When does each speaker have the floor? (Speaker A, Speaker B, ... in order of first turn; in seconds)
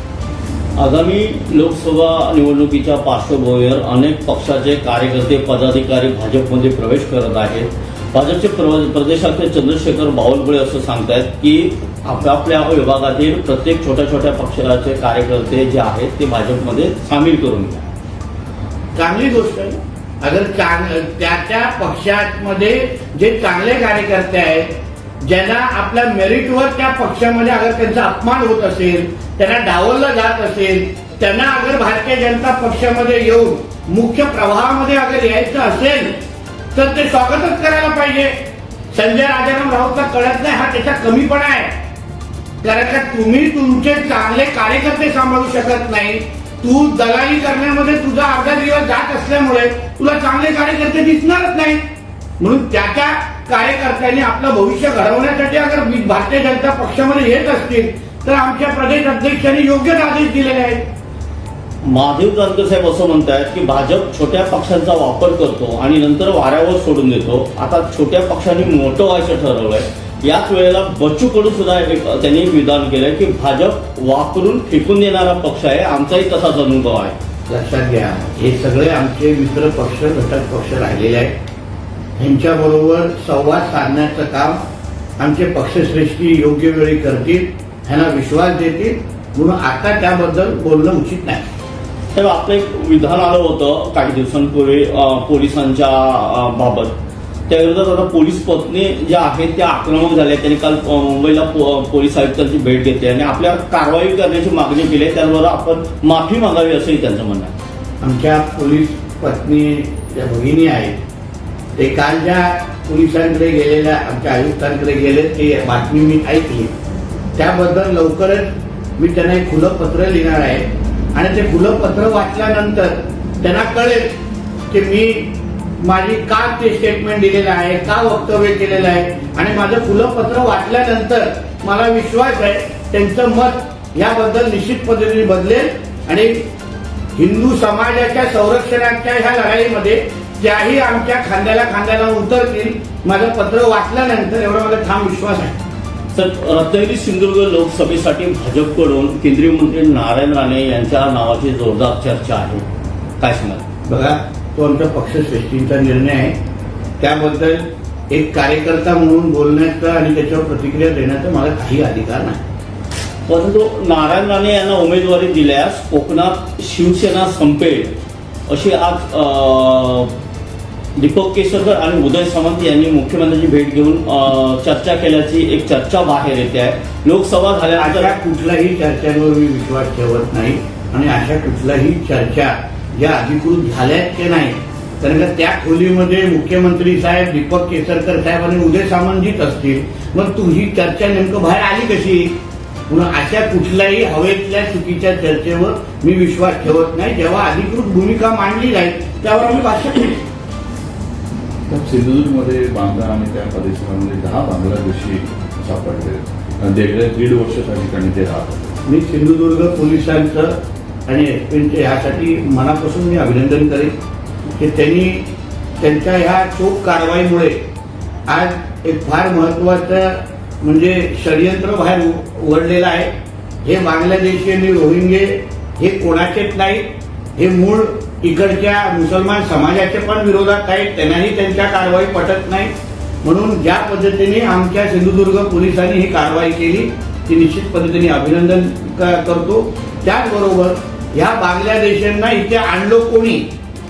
Speaker A: 0.8-17.9, 61.8-77.2, 92.1-96.9, 97.5-107.5, 146.1-152.6, 153.2-153.7, 163.3-167.9, 168.5-170.1, 171.0-178.1
Speaker B: 18.9-24.7, 25.2-36.2, 36.7-38.4, 38.9-41.7, 42.6-51.8, 52.4-60.8, 77.5-81.3, 82.2-84.6, 85.2-91.4, 108.0-111.0, 111.8-116.7, 117.3-124.1, 124.7-136.5, 137.2-145.6, 153.9-156.4, 157.0-162.4, 177.8-192.3, 192.9-200.2, 208.8-214.0, 214.6-215.3, 215.8-217.6, 218.3-223.1, 223.6-232.7, 233.2-243.4
Speaker C: 201.7-208.8